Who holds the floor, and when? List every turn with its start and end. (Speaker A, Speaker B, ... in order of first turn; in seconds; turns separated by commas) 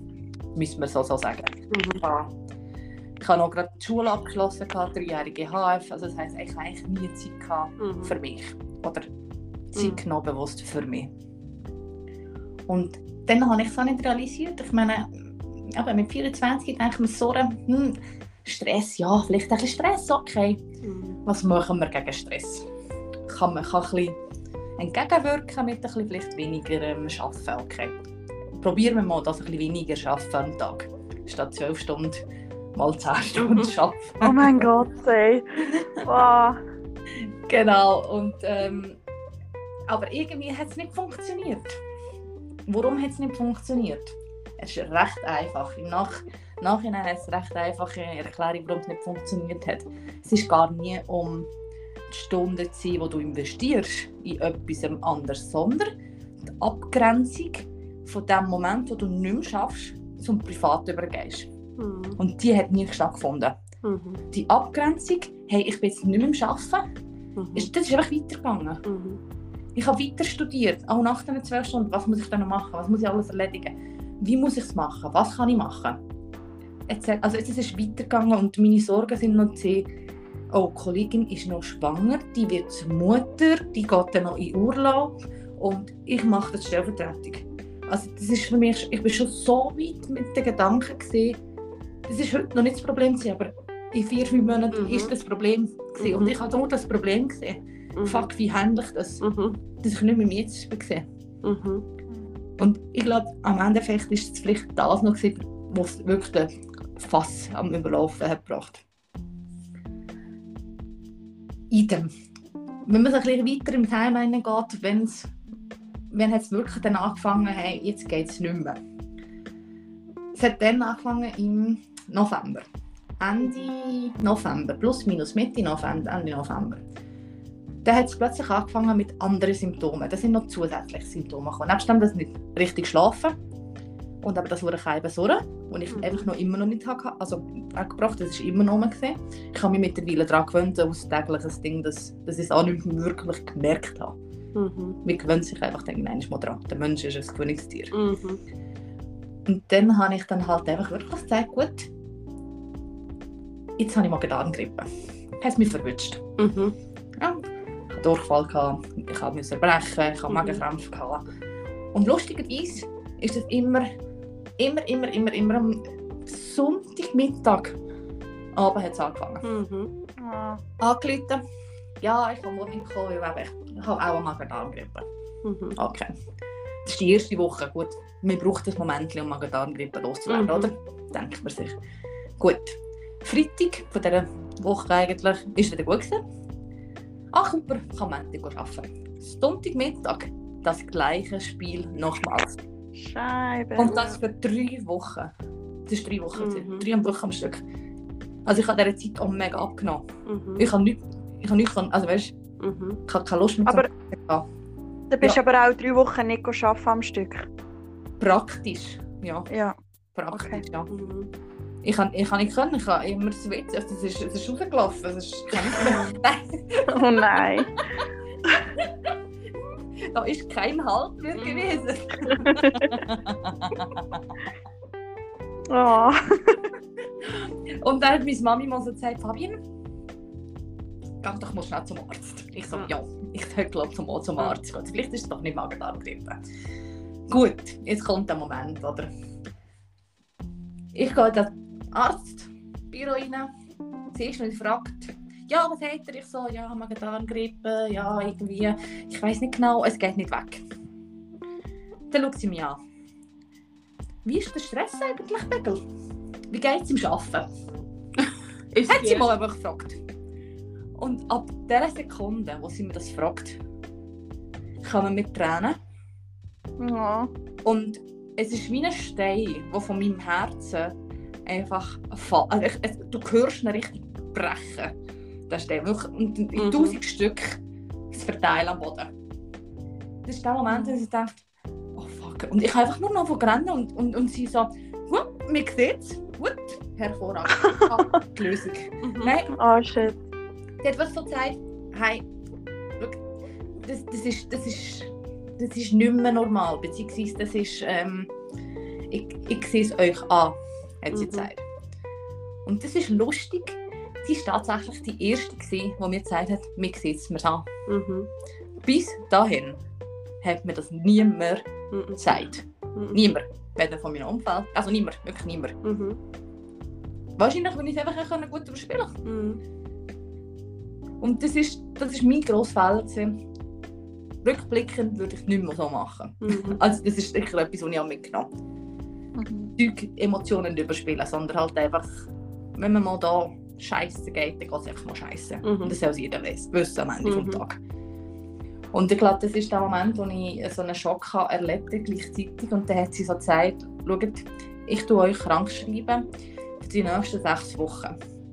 Speaker A: 0.5-2.1, Speaker B: 1.7-2.3, Speaker A: 3.2-9.1, Speaker B: 7.8-8.1, Speaker A: 9.7-11.1, Speaker B: 9.8-10.0, Speaker A: 12.7-20.6, Speaker B: 20.8-21.2, Speaker A: 21.2-22.7, Speaker A: 23.3-24.2, Speaker A: 24.8-27.9, Speaker A: 28.6-32.2, Speaker A: 32.7-34.6, Speaker B: 33.4-33.7, Speaker C: 34.2-36.6, Speaker A: 35.7-36.0, Speaker A: 37.2-39.0, Speaker A: 39.9-41.8, Speaker A: 42.7-51.5, Speaker A: 52.1-55.9, Speaker A: 56.6-61.5, Speaker B: 61.8-62.2, Speaker A: 62.2-63.6, Speaker B: 63.8-64.2, Speaker A: 64.3-66.8, Speaker B: 67.3-67.7, Speaker A: 67.5-68.8, Speaker B: 68.8-69.2, Speaker A: 69.7-76.0, Speaker A: 76.9-79.9, Speaker A: 80.5-91.4, Speaker A: 92.1-99.2, Speaker B: 94.7-95.1, Speaker B: 96.0-96.3, Speaker B: 98.0-98.3, Speaker B: 99.2-99.6, Speaker A: 99.8-101.0, Speaker B: 101.4-101.8, Speaker A: 102.6-108.8, Speaker A: 111.7-112.1, Speaker A: 112.8-115.3, Speaker A: 116.1-118.8, Speaker A: 120.3-122.7, Speaker A: 123.2-126.8, Speaker A: 127.8-133.3, Speaker A: 134.2-144.2, Speaker B: 135.9-136.3, Speaker B: 144.5-145.0, Speaker A: 145.0-147.9, Speaker B: 147.9-148.4, Speaker A: 149.4-151.9, Speaker A: 153.8-154.9, Speaker A: 155.4-156.2, Speaker B: 156.4-156.8, Speaker A: 157.2-161.2, Speaker B: 160.3-160.6, Speaker A: 161.9-163.9, Speaker A: 164.6-167.7, Speaker A: 168.5-169.4, Speaker B: 169.4-169.9, Speaker C: 170.2-170.6, Speaker A: 170.8-171.4, Speaker A: 172.0-175.1, Speaker B: 175.4-175.8, Speaker A: 175.8-176.1, Speaker A: 176.8-181.8, Speaker B: 180.3-180.7, Speaker A: 182.4-186.2, Speaker A: 187.3-192.6, Speaker C: 192.9-194.0, Speaker A: 193.8-195.3, Speaker B: 193.8-194.2, Speaker A: 195.9-197.6, Speaker B: 196.4-196.9, Speaker A: 198.4-200.1, Speaker B: 200.3-200.7, Speaker A: 200.6-202.3, Speaker B: 202.6-203.0, Speaker A: 203.1-204.4, Speaker C: 205.1-207.5, Speaker A: 208.2-209.5, Speaker C: 209.5-209.8, Speaker A: 210.1-210.9, Speaker C: 210.3-210.6, Speaker B: 210.9-211.3, Speaker A: 211.8-217.6, Speaker C: 215.7-216.2, Speaker C: 216.9-217.8, Speaker A: 218.5-219.1, Speaker A: 220.0-224.2, Speaker B: 221.3-221.8, Speaker C: 222.4-222.9, Speaker C: 225.7-226.7, Speaker A: 227.2-229.6, Speaker A: 231.2-236.4, Speaker A: 237.3-239.1, Speaker A: 240.9-243.5, Speaker A: 244.1-250.6, Speaker A: 252.1-252.8, Speaker A: 254.2-255.8, Speaker A: 256.5-257.5, Speaker B: 258.7-259.3, Speaker A: 258.9-260.0, Speaker A: 261.0-263.6, Speaker A: 264.8-265.8, Speaker C: 266.8-267.3, Speaker A: 267.6-270.9, Speaker A: 271.4-274.9, Speaker A: 275.5-277.6, Speaker B: 276.6-277.0, Speaker A: 278.1-279.1, Speaker A: 280.2-281.4, Speaker A: 281.9-289.5, Speaker B: 289.0-289.3, Speaker C: 289.5-290.2, Speaker A: 290.8-292.2, Speaker A: 293.8-298.3, Speaker A: 299.1-301.6, Speaker B: 301.1-301.5, Speaker A: 302.6-307.7, Speaker B: 307.9-308.3, Speaker A: 308.8-309.8, Speaker A: 310.4-311.7, Speaker B: 311.9-313.2, Speaker A: 312.2-315.8, Speaker B: 315.8-316.2, Speaker A: 317.4-319.2, Speaker B: 319.2-319.6, Speaker A: 321.2-323.4, Speaker A: 324.4-328.5, Speaker B: 326.4-326.8, Speaker C: 329.4-329.7, Speaker A: 329.8-337.8, Speaker B: 335.6-335.9, Speaker B: 337.2-337.6, Speaker A: 338.9-346.3, Speaker A: 346.8-348.1